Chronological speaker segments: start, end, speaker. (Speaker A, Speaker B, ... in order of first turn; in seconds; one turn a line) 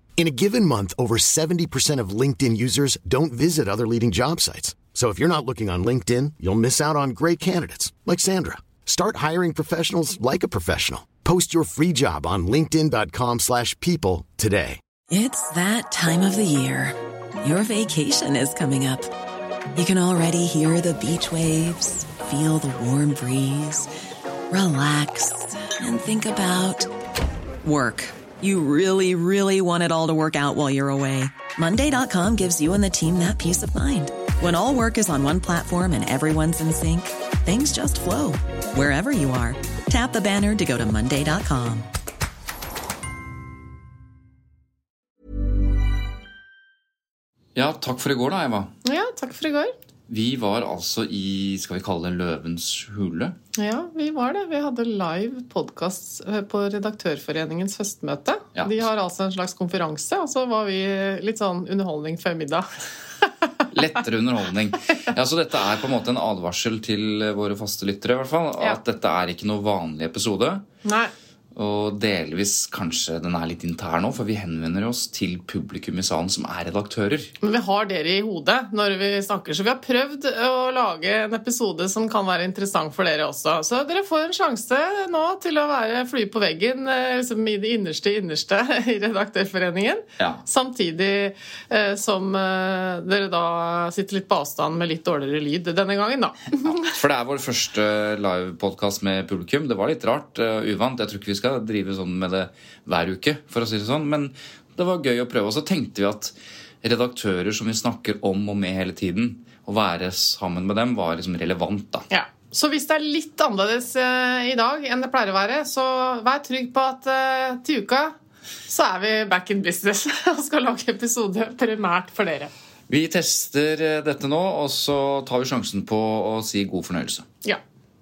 Speaker A: 0.2-14.8
Speaker B: 15.1-19.1
Speaker B: 19.7-23.9
Speaker B: 24.5-26.9
Speaker B: 27.6-41.9
Speaker C: 47.6-48.7
Speaker D: 48.8-49.7
Speaker C: 50.1-53.3
Speaker D: 53.6-62.7
Speaker C: 63.7-70.6
Speaker D: 70.8-71.1
Speaker C: 71.6-77.3
Speaker D: 77.4-96.9
Speaker C: 97.0-106.2
Speaker C: 106.8-112.0
Speaker D: 112.1-118.2
Speaker D: 118.7-122.5
Speaker C: 122.9-127.2